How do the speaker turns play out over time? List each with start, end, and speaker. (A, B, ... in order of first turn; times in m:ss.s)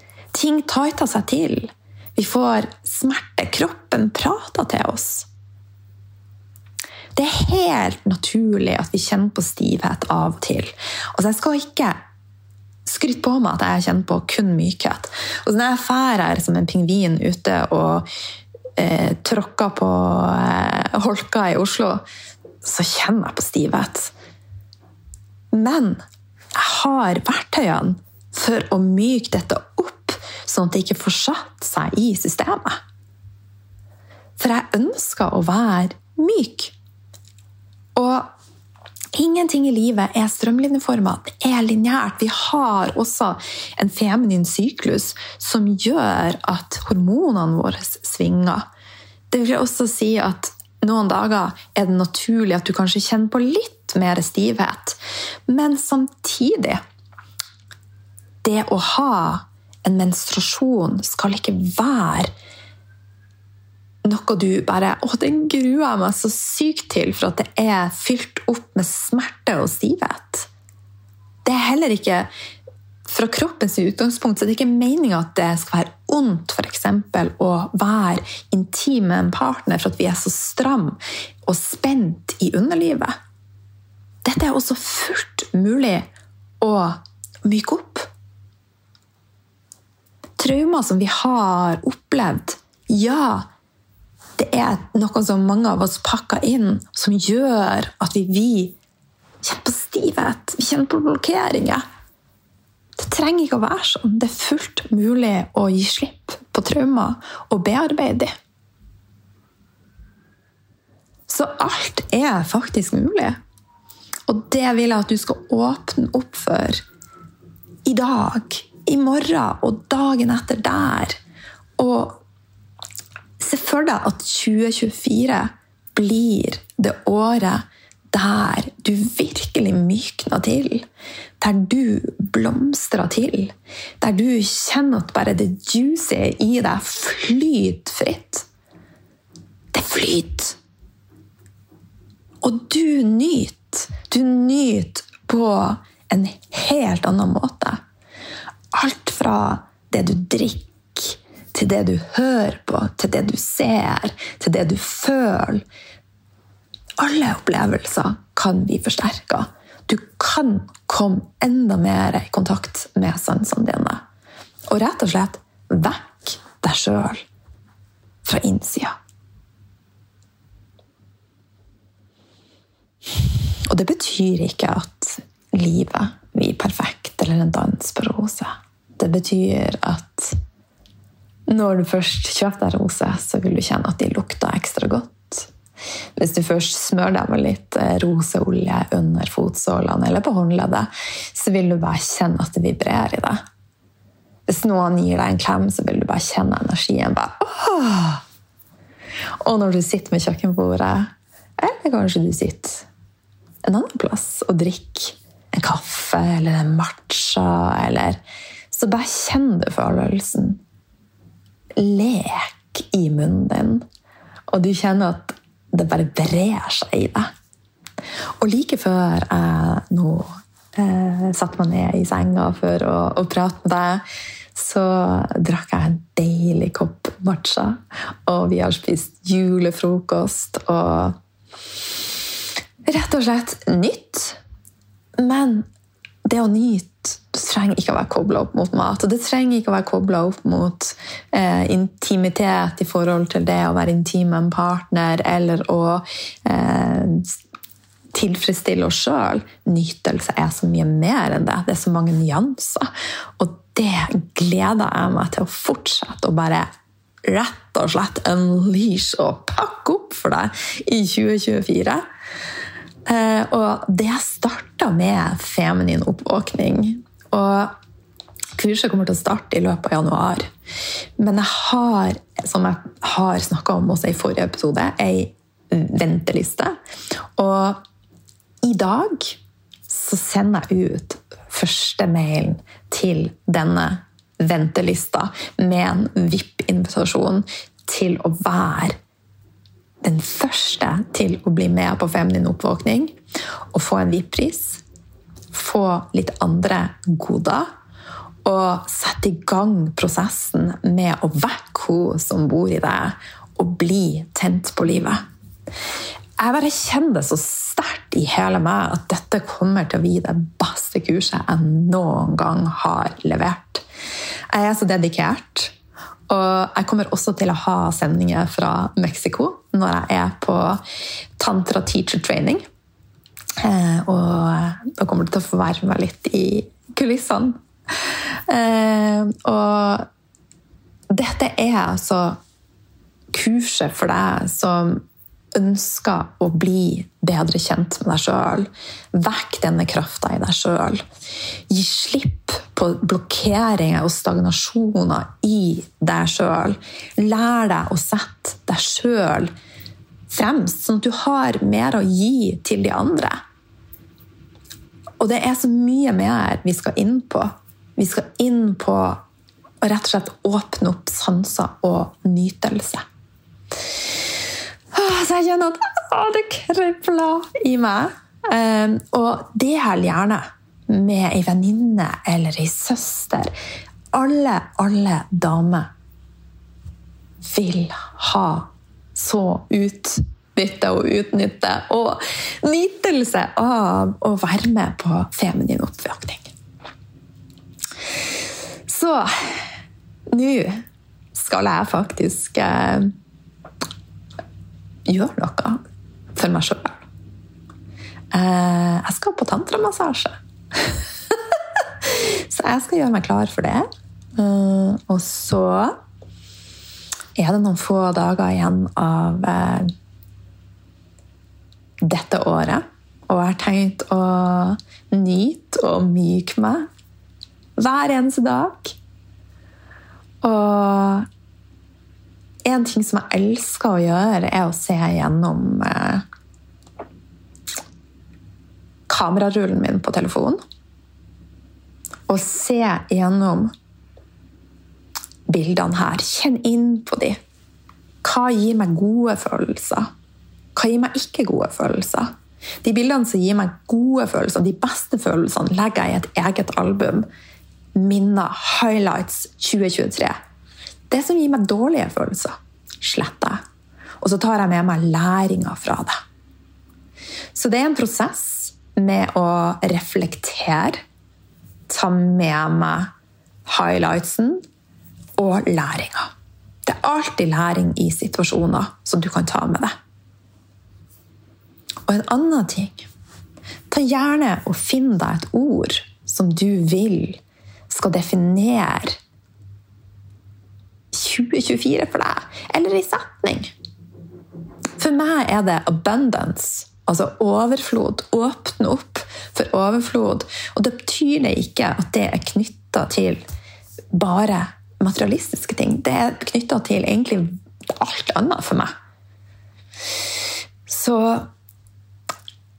0:00.3-0:05.3 A
0:07.1-0:12.0 A
0:12.8-0:18.1 A
0:18.8-0:22.0 A
0:22.6-0:24.1 A
0:25.5-0:26.0 A
0:26.5-0:32.8 A
0:34.4-0:36.7 A
0:37.9-0:38.3 A
0:39.1-0:48.7 A
0:49.3-0:56.8 A
0:58.4-1:02.3 A
1:04.0-1:10.5 A
1:11.4-1:12.3 A
1:13.0-1:23.1 A
1:24.2-1:26.1 A
1:26.6-1:28.1 A
1:30.4-1:33.5 A
1:34.4-1:38.8 A
1:39.4-1:41.8 A
1:43.0-1:48.3 A
1:51.3-1:53.4 A
1:54.3-1:56.8 A
1:57.8-2:01.2 A
2:01.8-2:02.2 A
2:03.4-2:10.8 A
2:11.4-2:18.5 A
2:19.7-2:20.6 A
2:22.4-2:27.8 A
2:28.7-2:35.6 A
2:37.0-2:44.0 A
2:44.7-2:47.2 A
2:48.2-2:48.9 A
2:53.7-3:00.4 A
3:01.5-3:05.5 A
3:06.2-3:13.4 A
3:14.5-3:18.2 A
3:19.4-3:22.9 A
3:23.6-3:28.2 A
3:28.7-3:30.6 A
3:31.8-3:33.8 A
3:34.5-3:37.3 A
3:38.4-3:44.0 A
3:44.5-3:51.2 A
3:52.8-3:54.4 A
3:55.2-3:55.7 A
3:56.2-4:07.3 A
4:08.1-4:16.7 A
4:17.2-4:22.0 A
4:23.0-4:27.7 A
4:28.6-4:30.5 A
4:31.2-4:36.8 A
4:37.4-4:37.8 A
4:38.6-4:49.0 A
4:50.0-4:53.2 A
4:53.7-4:54.8 A
4:55.5-4:57.7 A
4:58.4-5:05.2 A
5:06.4-5:13.8 A
5:14.5-5:15.7 A
5:16.3-5:20.8 A
5:21.4-5:22.6 A
5:23.6-5:30.1 A
5:31.1-5:32.4 A
5:33.3-5:41.0 A
5:41.7-5:49.5 A
5:50.3-5:53.4 A
5:55.2-5:59.2 A
5:59.8-6:03.0 A
6:04.9-6:13.5 A
6:14.1-6:15.9 A
6:17.4-6:26.5 A
6:28.9-6:29.6 A
6:30.3-6:33.1 A
6:35.1-6:35.8 A
6:36.3-6:37.0 A
6:38.3-6:41.4 A
6:42.0-6:46.0 A
6:47.4-6:49.9 A
6:52.0-6:56.8 A
6:57.8-6:59.0 A
7:00.4-7:01.2 A
7:02.6-7:06.2 A
7:09.1-7:10.6 A
7:12.3-7:13.7 A
7:15.5-7:17.4 A
7:18.2-7:20.1 A
7:20.7-7:22.3 A
7:22.8-7:27.3 A
7:27.9-7:30.4 A
7:31.1-7:33.6 A
7:34.2-7:36.2 A
7:37.5-7:41.0 A
7:41.9-7:43.1 A
7:43.6-7:44.6 A
7:45.4-7:46.3 A
7:46.8-7:49.9 A
7:52.1-7:53.1 A
7:53.9-7:59.2 A
8:01.1-8:03.7 A
8:05.0-8:13.4 A
8:14.1-8:18.9 A
8:20.9-8:21.5 A